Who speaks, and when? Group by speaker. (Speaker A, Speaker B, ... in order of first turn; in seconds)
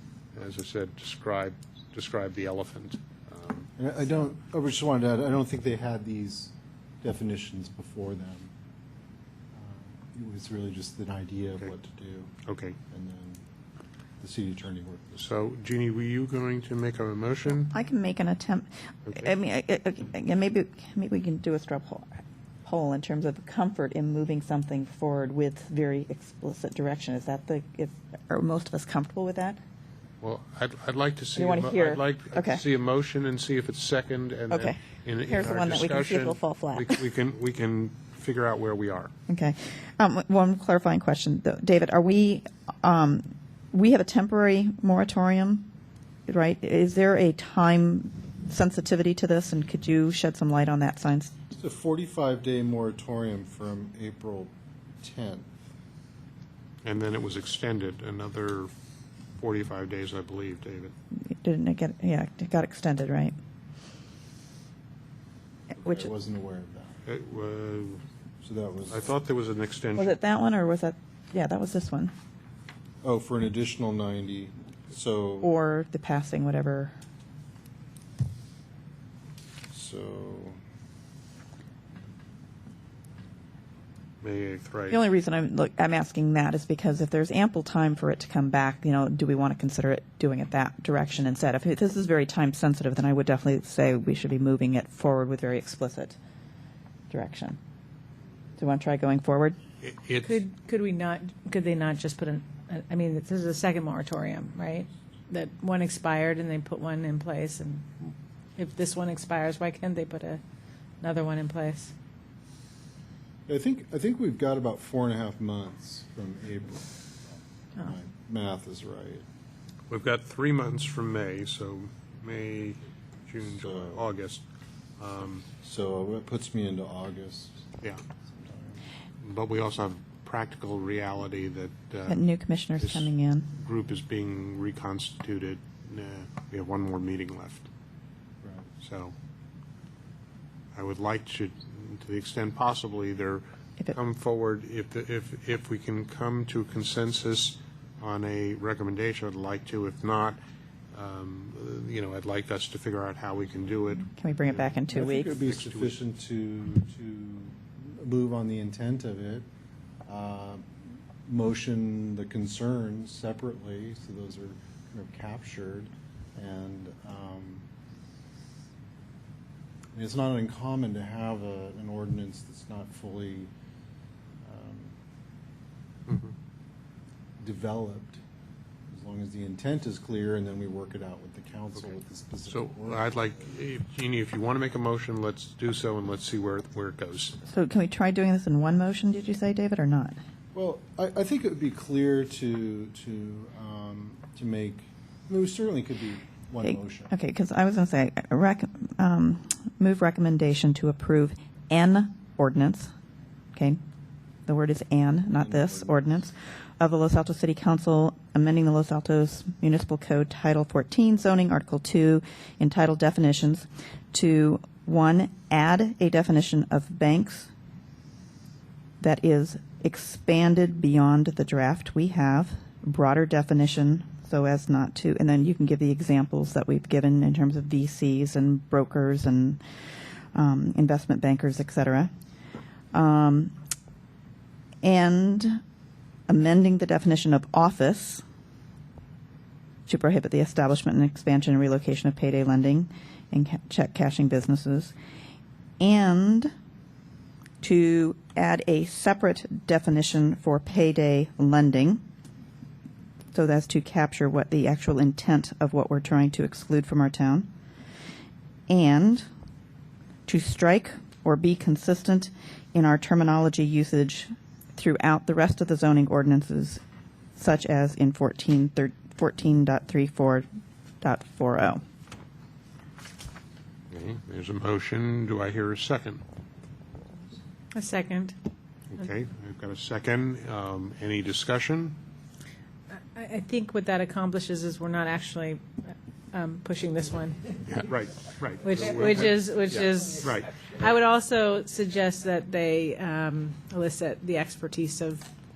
Speaker A: 0.3-3.7, 12.4-12.8, 15.2-17.7, 30.2-39.1, 56.8-58.7, 59.4-60.9, 67.0-68.0, 68.9-70.2, 84.2-85.0, 99.8-100.4, 119.9-124.4, 125.0-125.5, 129.2-132.2, 132.8-137.7, 138.8-139.1, 140.7-150.4, 150.9-154.1, 155.4-155.9, 176.1-176.3, 182.5-187.4, 273.9-276.2, 278.9-282.0, 287.6-290.5
Speaker B: 3.8-8.5, 9.5-12.3, 12.9-13.4, 14.2-15.2, 51.5-55.5, 65.8-67.0, 68.4-69.0, 73.0-75.5, 79.7-80.6, 113.5-117.0, 117.8-119.2, 123.5-124.1, 125.6-127.6, 128.3-128.8, 138.4-138.7, 154.9-159.4, 160.1-160.6, 161.2-167.6, 169.9-173.5, 174.4-174.9, 177.4-178.2, 178.9-183.5, 190.5-197.1, 205.4-206.1
Speaker C: 17.7-22.1, 22.6-29.6, 31.4-32.6, 34.5-37.0, 39.3-45.7, 46.3-51.3, 61.2-63.3, 65.8-66.1, 70.0-72.1, 75.4-76.9, 84.9-96.2, 97.1-97.6, 98.6-99.6, 132.1-133.5, 154.1-155.3, 187.4-190.2, 196.6-202.9, 204.4-217.5, 219.0-229.6, 230.3-232.1, 232.9-233.5, 234.8-235.6, 236.3-238.2, 239.9-244.9, 245.8-246.5, 247.6-252.0, 253.3-257.5, 258.7-259.2, 260.3-266.8, 267.4-270.4, 271.0-271.8
Speaker D: 100.2-110.4, 111.0-111.9, 277.7-278.4, 283.1-287.4, 288.6-295.3